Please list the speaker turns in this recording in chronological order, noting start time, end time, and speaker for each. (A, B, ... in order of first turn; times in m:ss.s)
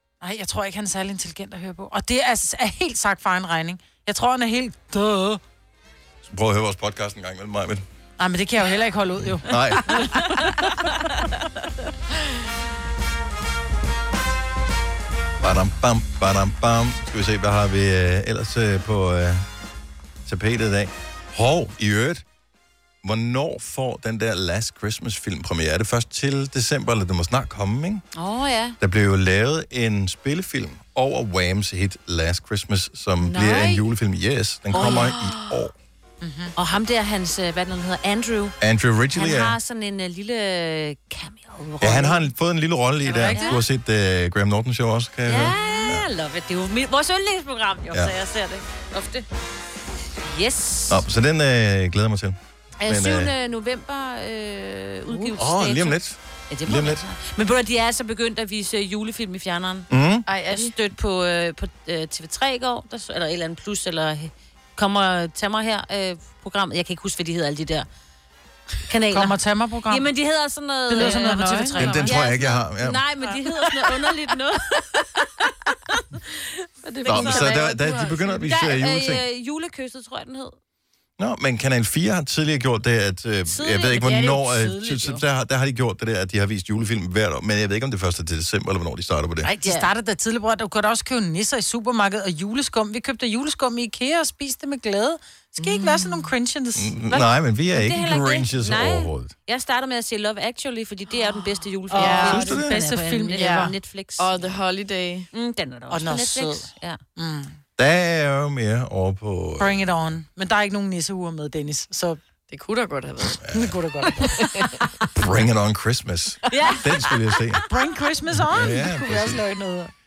0:00.2-0:05.4 A
0:06.2-0:07.8 B
0:08.2-0:10.0 A
0:09.3-0:10.0 B
0:15.4-0:19.4 B
0:20.2-0:22.2 B
0:23.0-0:28.0 B
0:28.1-0:28.8 C
0:28.8-0:35.7 B
0:33.2-0:33.8 D
0:34.7-0:35.2 C
0:34.9-0:35.3 D
0:36.2-0:36.5 A
0:36.6-0:38.6 C
0:38.6-0:39.6 B
0:39.1-0:42.3 C
0:41.8-0:46.0 B
0:43.1-0:43.6 A
0:43.1-0:43.6 C
0:45.2-0:49.3 C
0:50.2-0:51.0 C
0:50.9-0:53.3 B
0:52.8-0:59.9 C
0:55.4-0:57.0 B
0:59.9-1:00.2 B
1:00.3-1:00.7 D
1:00.5-1:07.9 C
1:08.9-1:15.2 C
1:09.1-1:10.1 A
1:10.9-1:12.2 A
1:11.0-1:11.8 D
1:11.8-1:13.0 B
1:16.8-1:18.4 D
1:16.9-1:17.6 C
1:17.0-1:19.2 B
1:18.4-1:20.6 C
1:21.2-1:29.5 B
1:23.5-1:25.2 C
1:29.4-1:36.9 A
1:29.6-1:29.9 C
1:35.6-1:36.2 D
1:36.7-1:39.3 B
1:37.1-1:44.4 C
1:41.9-1:43.7 A
1:42.0-1:42.5 D
1:42.2-1:42.7 B
1:43.3-1:45.3 D
1:45.3-1:47.0 C
1:45.9-1:47.6 A
1:47.8-1:49.8 B
1:49.6-1:52.2 A
1:52.5-1:53.4 D
1:53.4-1:53.7 B
1:53.6-1:54.3 A
1:54.2-1:54.9 D
1:55.1-1:57.6 B
1:56.5-1:56.8 D
1:56.5-1:57.9 C
1:57.7-1:59.9 A
1:58.5-1:59.4 B